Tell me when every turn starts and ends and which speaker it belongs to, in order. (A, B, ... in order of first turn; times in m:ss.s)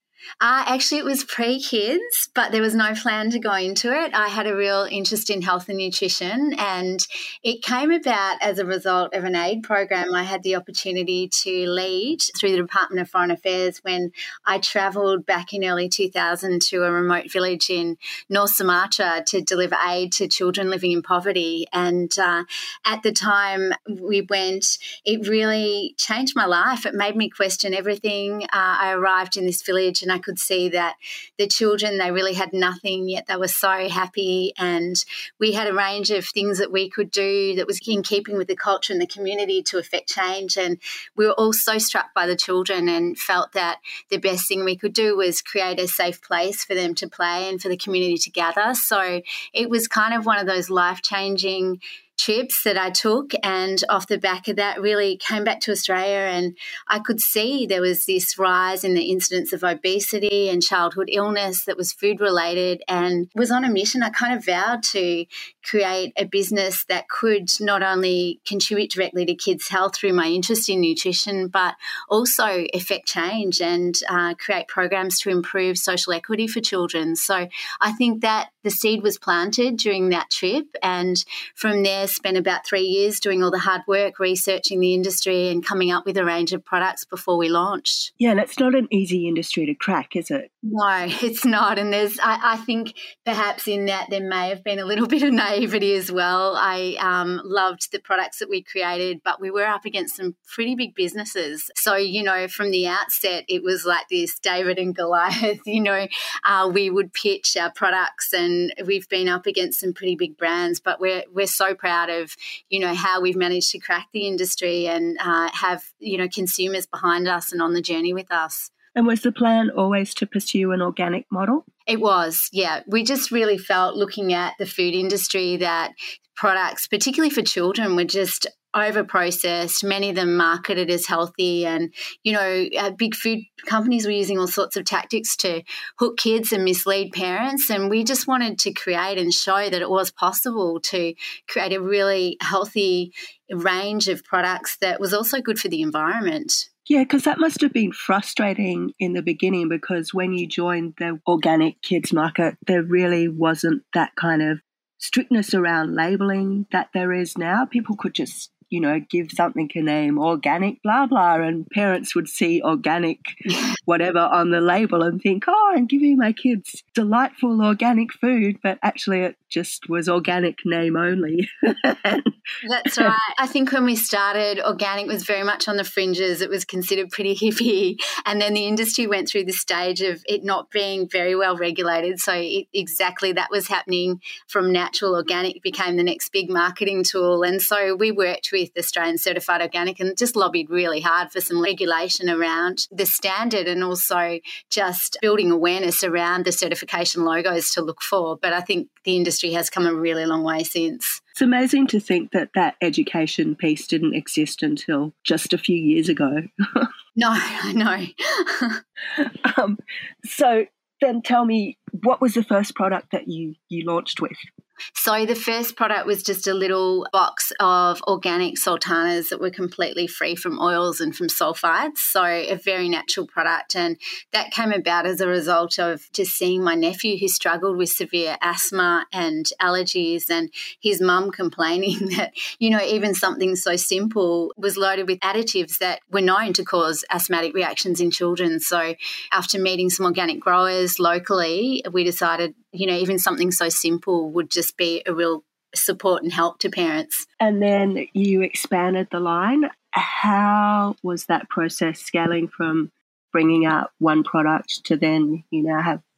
0:00.4-1:28.1 A
1:28.2-1:30.5 B
1:30.6-1:58.7 A
1:58.9-2:01.6 B
2:01.9-2:26.7 A
2:26.9-2:52.3 B
2:52.6-3:21.2 A
3:21.4-3:26.9 B
3:27.1-3:28.8 A
3:29.2-3:34.4 B
3:35.0-4:07.2 A
4:07.4-4:16.0 B